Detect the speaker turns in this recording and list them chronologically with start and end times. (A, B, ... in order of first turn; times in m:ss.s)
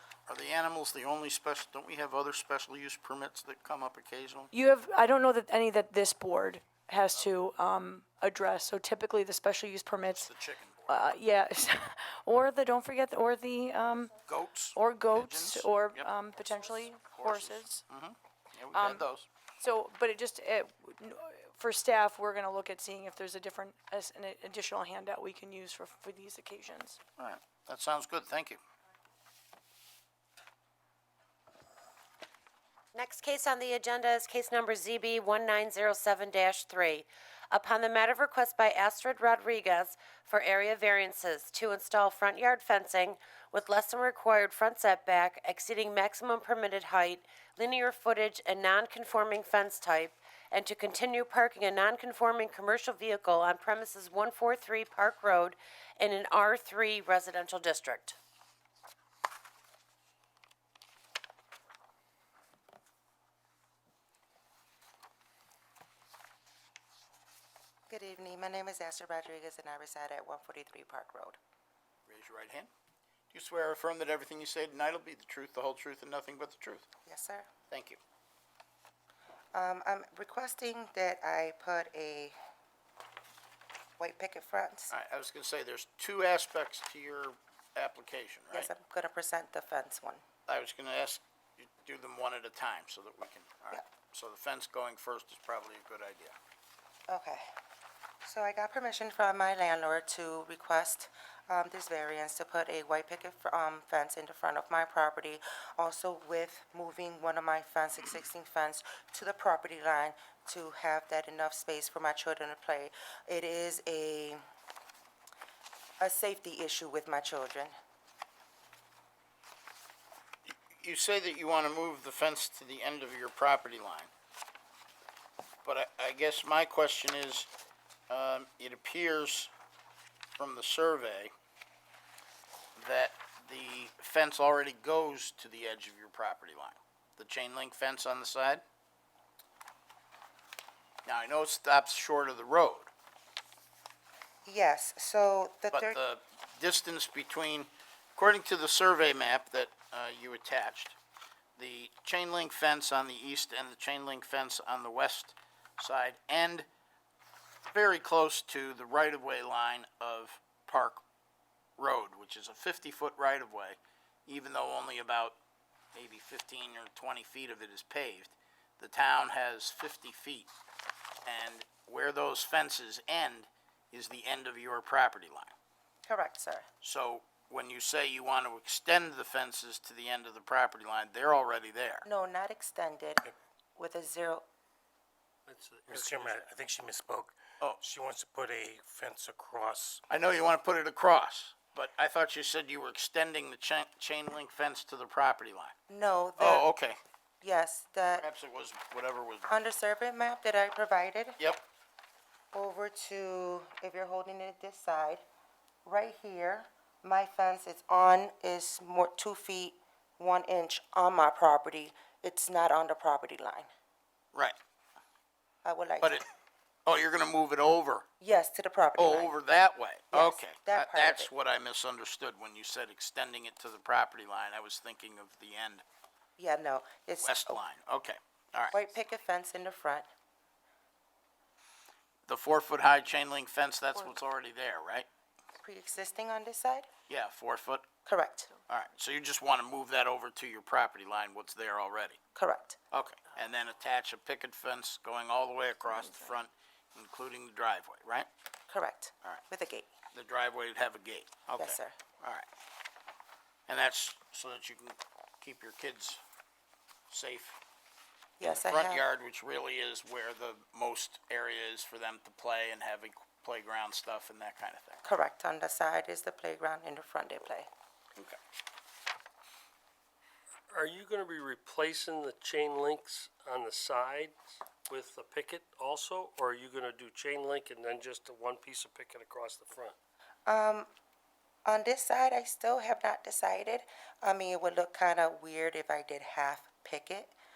0:00.3-0:04.5 A
0:04.5-0:10.3 B
0:10.1-0:11.1 A
0:10.9-0:14.1 B
0:14.3-0:19.3 A
0:14.7-0:17.8 B
0:18.7-0:19.1 B
0:19.6-0:27.0 B
0:27.2-0:28.6 A
0:33.0-0:58.2 C
1:07.9-1:11.4 D
1:12.1-1:12.7 A
1:13.3-1:16.9 A
1:17.1-1:17.5 D
1:17.7-1:18.0 A
1:19.5-1:22.4 D
1:24.0-1:24.9 D
1:24.9-1:28.7 A
1:28.5-1:30.2 D
1:30.5-1:36.4 A
1:37.1-1:37.5 D
1:38.2-1:54.4 D
1:56.0-1:57.7 D
2:00.5-2:04.1 A
2:05.6-2:07.5 A
2:08.1-2:09.5 A
2:10.4-2:11.3 A
2:12.8-2:18.6 A
2:21.1-2:22.9 A
2:24.5-2:26.0 D
2:25.7-2:31.0 A
2:31.6-2:36.7 A
2:37.7-2:41.0 A
2:41.8-2:45.4 A
2:45.9-2:50.5 A
2:51.2-2:55.5 A
2:56.0-2:56.7 D
2:56.8-3:02.0 A
3:02.0-3:03.2 D
3:03.8-3:04.4 D
3:05.5-3:06.5 E
3:05.9-3:10.0 F
3:10.1-3:15.7 A
3:15.9-3:16.7 D
3:16.4-3:17.0 A
3:17.4-3:18.2 D
3:18.1-3:19.5 A
3:19.5-3:21.4 D
3:22.5-3:25.2 D
3:25.8-3:33.7 D
3:35.6-3:36.2 D
3:36.0-3:36.3 A
3:36.9-3:38.1 A
3:38.2-3:39.4 D
3:39.0-3:45.8 A
3:40.1-3:41.3 D
3:46.4-3:47.6 D
3:47.2-3:48.8 A
3:48.7-3:50.1 D
3:52.3-3:55.1 A
3:55.6-3:56.9 D
3:57.1-3:57.9 A
3:58.1-3:58.5 D
3:58.7-4:02.2 A
4:02.4-4:02.8 D
4:02.9-4:08.3 A
4:08.7-4:09.9 D
4:10.1-4:12.5 A
4:11.6-4:12.0 D
4:13.7-4:16.2 A
4:17.1-4:17.6 A
4:18.4-4:19.0 D
4:18.4-4:25.0 A
4:25.0-4:27.7 D
4:30.7-4:40.0 E
4:40.5-4:40.9 D
4:41.7-4:47.3 D